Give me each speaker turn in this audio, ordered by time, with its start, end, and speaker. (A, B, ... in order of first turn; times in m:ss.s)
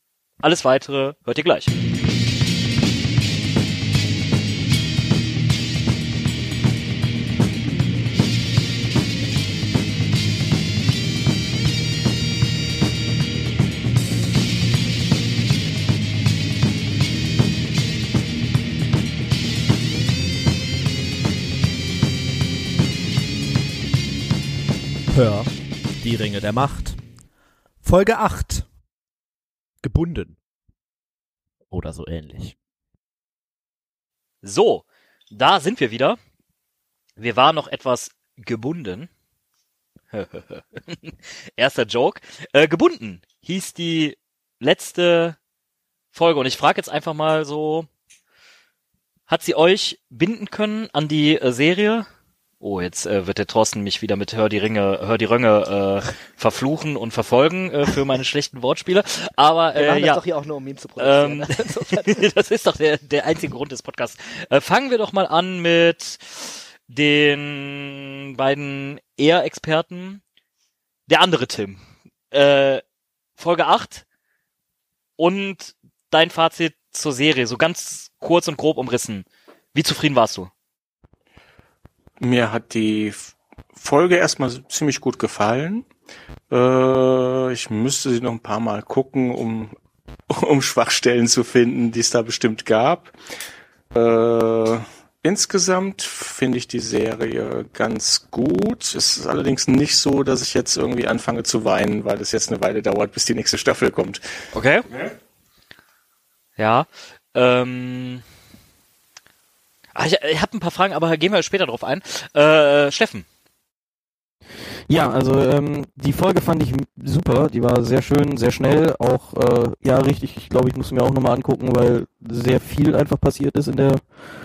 0:00.4-0:01.7 A
0:25.1-0:27.0 B
0:27.8-0:28.7 B
0:29.8-0:30.4 B
0:31.7-0:32.6 B
0:34.4-0:36.2 A
0:37.2-0:39.1 A
0:40.1-0:45.4 A
0:46.1-0:47.9 A
0:49.3-0:52.1 A
0:52.6-1:00.2 A
0:59.8-1:02.2 C
1:01.0-1:10.2 A
1:11.1-1:11.8 A
1:12.3-1:12.8 A
1:13.4-1:14.0 A
1:15.2-1:20.5 A
1:22.2-1:25.9 D
1:26.5-1:29.8 D
1:30.3-1:33.1 D
1:33.9-1:44.2 D
1:44.5-1:44.9 A
1:46.6-1:48.2 A
1:50.0-1:53.3 A
1:54.9-2:04.0 E